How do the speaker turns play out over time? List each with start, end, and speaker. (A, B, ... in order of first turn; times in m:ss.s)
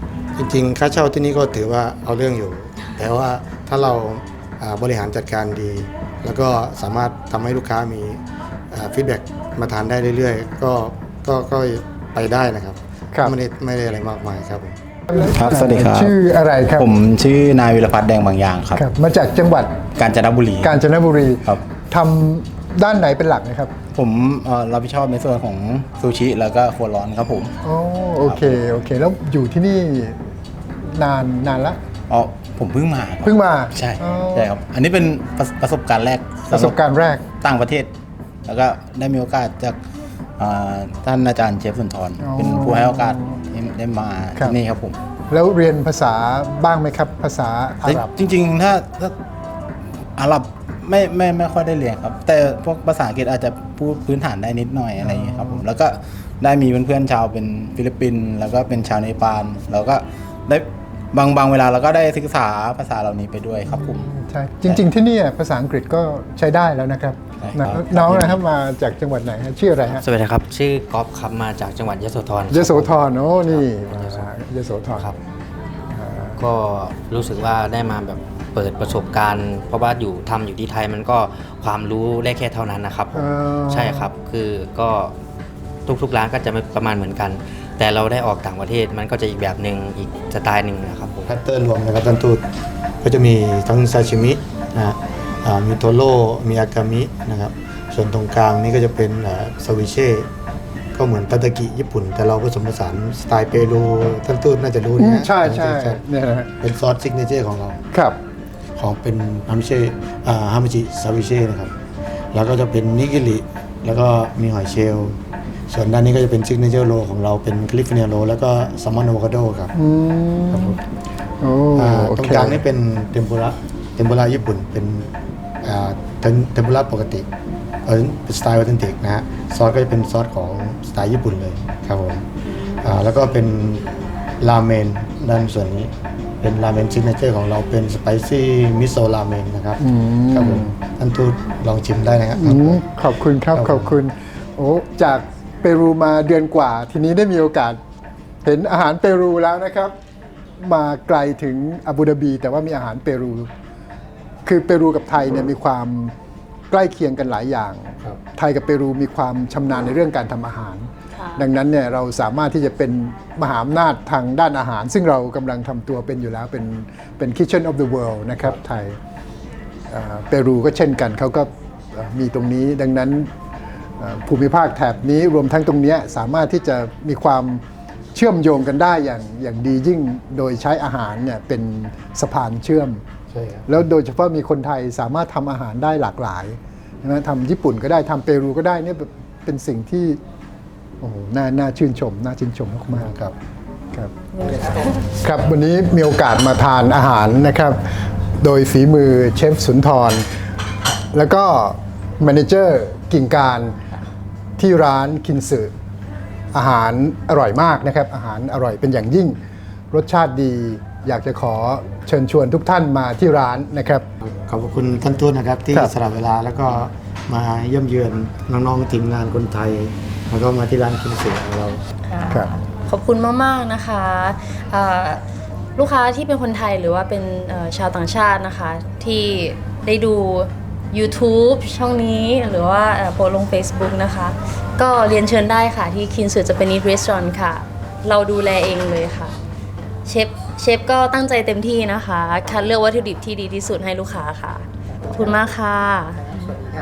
0:00.4-0:14.8 A
0:15.1-0:16.9 B
0:15.3-0:16.2 C
0:16.7-0:18.8 C
0:18.7-0:19.7 B
0:20.0-0:20.7 C
0:20.6-0:23.7 B
0:23.9-0:27.5 C
0:27.6-0:30.2 B
0:28.2-0:28.6 C
0:30.8-0:31.8 B
0:32.1-0:36.8 C
0:33.2-0:34.5 B
0:36.5-0:37.2 B
0:37.4-0:37.9 C
0:38.4-0:39.8 C
0:40.4-0:45.0 C
0:42.2-0:43.4 B
0:45.3-0:48.1 B
0:47.8-0:49.2 C
0:50.2-1:04.1 C
0:55.1-0:55.6 B
1:03.7-1:10.0 B
1:07.4-1:08.4 C
1:09.9-1:14.2 D
1:12.5-1:15.1 B
1:15.9-1:16.4 B
1:16.4-1:25.1 D
1:23.1-1:24.1 B
1:25.9-1:31.3 D
1:31.3-1:32.4 A
1:33.0-1:40.3 A
1:40.9-1:46.0 A
1:45.0-1:46.5 B
1:46.6-1:47.8 A
1:47.9-1:48.2 B
1:48.8-1:51.7 A
1:52.3-1:55.2 A
1:55.7-1:59.7 A
1:59.7-2:00.8 B
2:00.5-2:00.8 A
2:01.4-2:02.6 B
2:01.8-2:05.1 A
2:05.6-2:07.2 A
2:07.8-2:12.2 A
2:12.8-2:13.8 A
2:14.4-2:22.8 A
2:19.8-2:20.7 B
2:22.3-2:27.8 B
2:23.5-2:23.9 A
2:28.4-2:29.9 B
2:30.6-2:33.5 B
2:34.4-2:36.1 B
2:36.7-2:49.0 B
2:41.2-2:41.4 E
2:49.9-2:53.3 B
2:54.0-2:57.6 B
2:58.1-3:03.0 B
3:03.3-3:03.7 A
3:03.7-3:10.2 B
3:11.0-3:13.2 B
3:13.0-3:13.3 A
3:14.5-3:14.8 E
3:15.1-3:17.8 B
3:18.4-3:20.3 B
3:21.1-3:23.8 B
3:24.6-3:25.7 B
3:26.5-3:29.4 B
3:29.9-3:34.0 B
3:34.2-3:41.8 A
3:42.0-3:45.2 E
3:45.8-3:59.4 E
4:00.0-4:06.6 E